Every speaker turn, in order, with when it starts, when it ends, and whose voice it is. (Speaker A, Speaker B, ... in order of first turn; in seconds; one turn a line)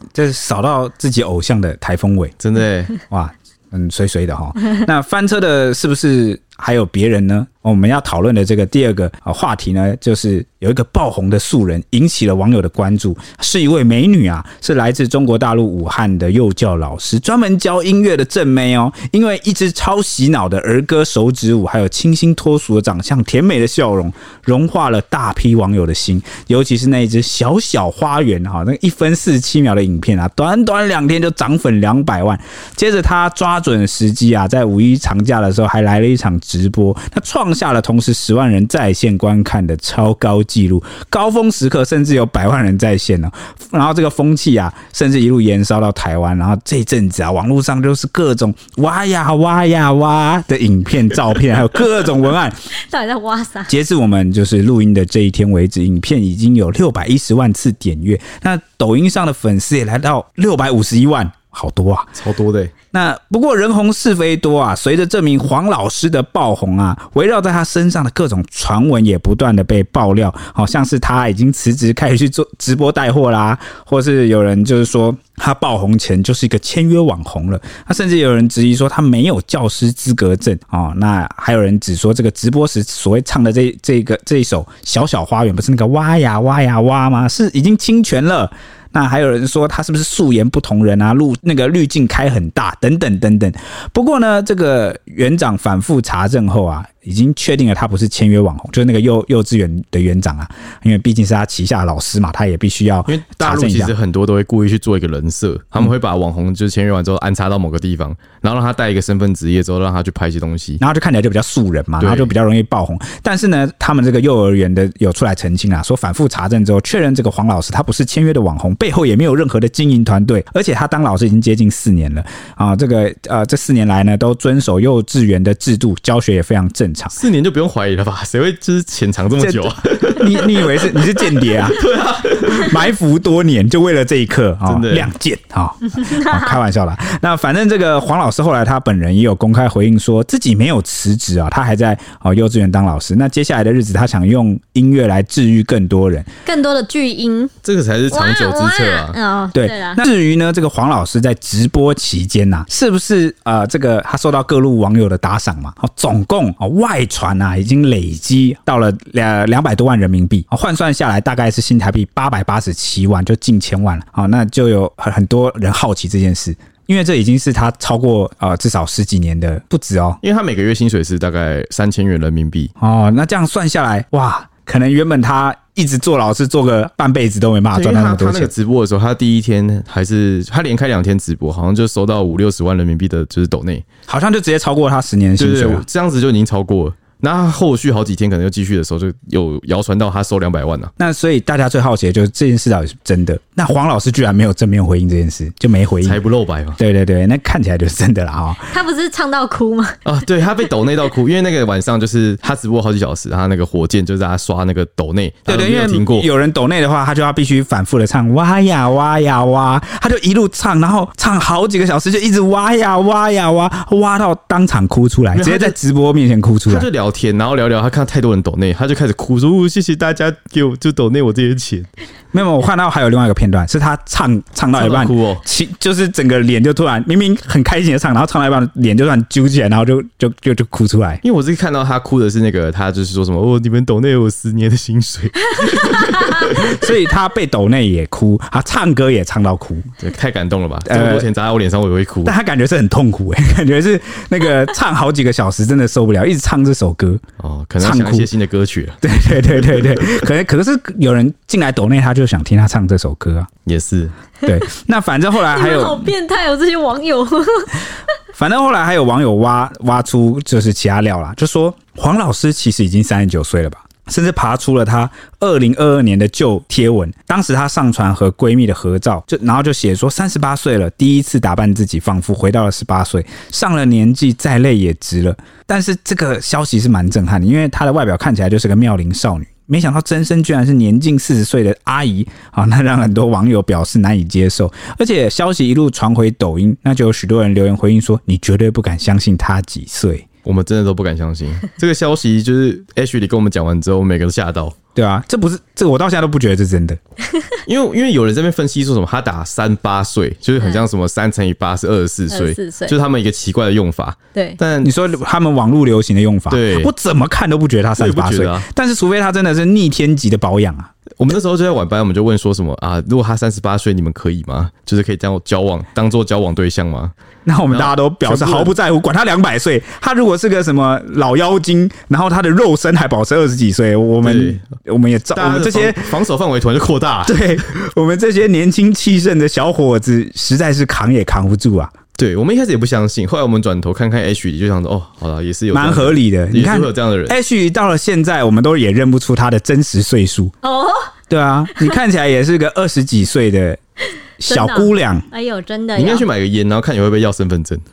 Speaker A: 0.1-2.4
Speaker B: 2.4-2.9
Speaker A: 3.1-52.6
Speaker C: 52.7-53.7
Speaker A: 53.7-62.1
Speaker B: 62.2-62.7
Speaker A: 62.9-103.9
Speaker B: 103.1-110.8
Speaker A: 110.8-127.2
Speaker B: 112.0-112.3
Speaker B: 127.2-130.9
Speaker A: 129.4-131.8
Speaker B: 131.4-132.8
Speaker A: 132.5-146.3
Speaker B: 134.7-135.1
Speaker C: 136.0-136.6
Speaker C: 146.4-147.5
Speaker B: 147.7-149.2
Speaker C: 148.1-150.0
Speaker A: 149.5-170.2
Speaker B: 170.2-172.7
Speaker A: 172.8-178.5
Speaker B: 177.8-183.8
Speaker A: 184.1-185.9
Speaker B: 185.4-190.9
Speaker A: 191.0-196.2
Speaker B: 196.0-196.8
Speaker A: 196.8-198.7
Speaker C: 198.7-200.0
Speaker B: 200.1-206.3
Speaker A: 205.5-216.9
Speaker B: 215.3-215.8
Speaker B: 216.7-221.9
Speaker A: 222.3-231.2
Speaker B: 224.8-225.4
Speaker B: 231.2-236.9
Speaker C: 235.7-236.3
Speaker A: 236.5-239.9
Speaker B: 240.0-242.3
Speaker A: 240.9-241.3
Speaker A: 242.2-247.2
Speaker B: 247.4-249.0
Speaker A: 247.8-248.3
Speaker A: 249.0-253.5
Speaker B: 249.6-250.1
Speaker B: 253.7-254.1
Speaker A: 254.4-256.1
Speaker C: 255.5-257.9
Speaker A: 258.3-290.3
Speaker B: 290.4-294.8
Speaker A: 294.9-297.0
Speaker C: 297.3-297.6
Speaker B: 297.7-304.9
Speaker C: 302.3-302.9
Speaker C: 304.3-304.6
Speaker A: 304.8-310.9
Speaker B: 306.5-306.9
Speaker B: 308.0-308.7
Speaker B: 311.2-317.1
Speaker A: 317.5-326.2
Speaker B: 317.7-318.7
Speaker B: 324.2-324.6
Speaker B: 325.4-327.4
Speaker A: 327.3-331.9
Speaker B: 332.2-337.4
Speaker A: 335.7-340.5
Speaker C: 340.6-341.1
Speaker A: 341.3-343.8
Speaker A: 344.4-345.2
Speaker C: 344.4-346.3
Speaker B: 346.0-347.8